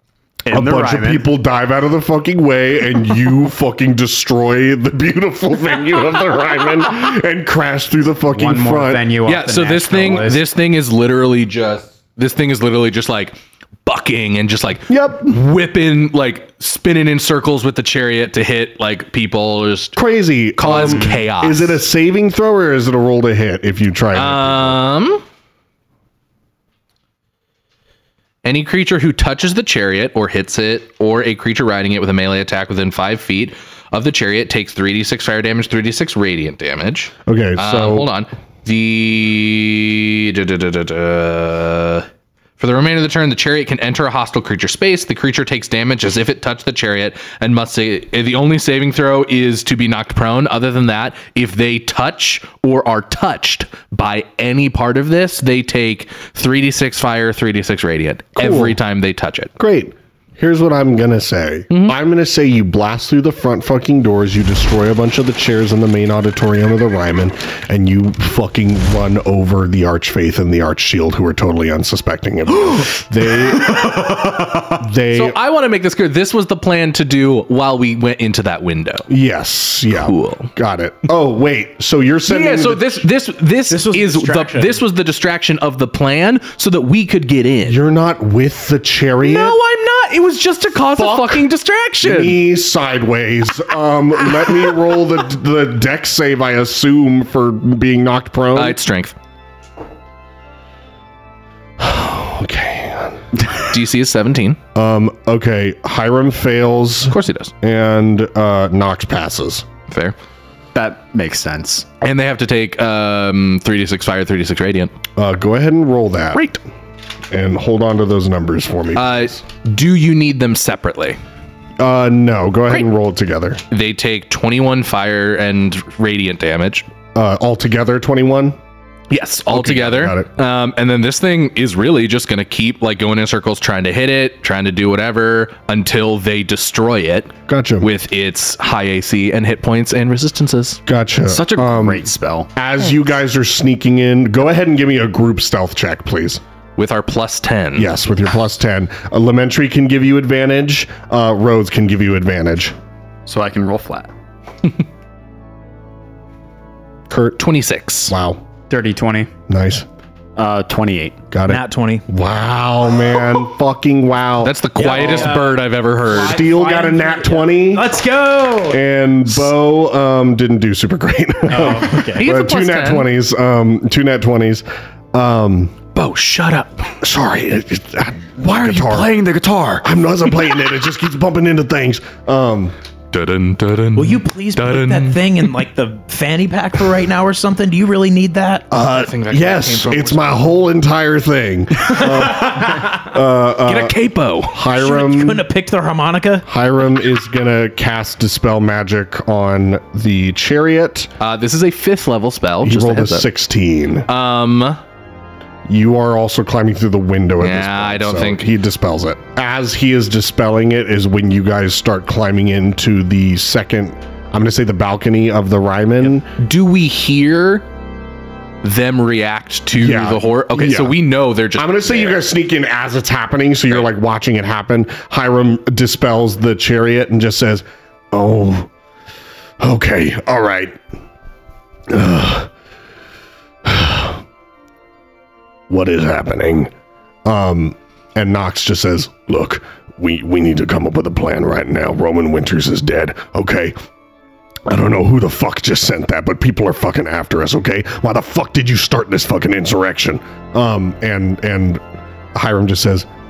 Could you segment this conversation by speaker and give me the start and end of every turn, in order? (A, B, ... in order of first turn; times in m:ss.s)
0:00.4-0:01.2 A
0:00.5-0:09.1 B
0:08.3-0:10.4 C
0:09.2-0:20.0 D
0:14.9-0:15.4 B
0:20.0-0:24.8 B
0:20.6-0:21.8 D
0:24.1-0:25.2 D
0:28.4-0:59.5 D
0:37.2-0:38.1 B
0:58.4-0:58.8 B
0:59.6-1:15.4 B
1:15.1-1:19.1 D
1:19.1-1:23.0 B
1:19.9-1:20.5 D
1:22.3-1:27.8 D
1:23.7-1:24.8 E
1:27.6-1:29.6 B
1:29.2-1:32.4 D
1:30.9-1:31.4 B
1:32.0-1:38.8 B
1:38.5-1:39.2 D
1:41.8-1:43.2 B
1:43.6-1:44.6 D
1:44.7-1:49.7 B
1:47.1-1:47.5 D
1:49.9-1:50.1 D
1:50.7-1:51.9 A
1:52.0-1:54.9 D
1:55.2-1:56.5 B
1:56.3-1:56.6 D
1:57.3-1:59.4 B
1:58.9-2:01.2 D
2:01.8-2:03.6 B
2:03.7-2:06.9 D
2:07.1-2:08.6 B
2:09.1-2:20.8 D
2:09.5-2:10.3 B
2:17.5-2:17.9 B
2:20.8-2:26.4 B
2:21.2-2:22.5 A
2:26.8-2:27.9 D
2:27.8-2:32.7 B
2:33.2-2:34.1 A
2:37.1-2:37.4 B
2:37.4-2:38.1 D
2:38.1-2:38.4 B
2:38.7-2:39.3 C
2:39.5-2:39.8 B
2:40.4-2:41.2 A
2:41.3-2:45.5 B
2:41.5-2:42.0 E
2:44.4-2:46.4 D
2:44.8-2:48.8 E
2:46.0-2:47.9 B
2:48.7-2:55.8 B
2:51.5-2:52.2 E
2:51.9-2:53.1 D
2:55.9-2:56.8 D
2:56.9-2:59.1 B
2:58.5-2:59.8 A
2:59.8-3:02.7 B
3:03.1-3:05.2 D
3:04.0-3:08.7 E
3:08.7-3:15.4 B
3:08.7-3:10.5 D
3:11.9-3:12.9 D
3:13.6-3:14.6 D
3:14.7-3:16.4 E
3:16.4-3:21.1 B
3:21.2-3:23.3 D
3:22.6-3:24.1 B
3:24.1-3:24.8 D
3:25.7-3:36.3 B
3:27.4-3:28.5 D
3:36.4-3:37.6 D
3:38.6-3:42.2 D
3:39.7-3:41.0 B
3:41.5-3:48.7 B
3:49.6-3:50.8 B
3:51.9-3:52.5 B
3:53.6-3:54.2 B
3:55.7-3:56.7 B
3:57.2-4:03.7 B
4:04.7-4:11.8 B
4:12.3-4:13.1 B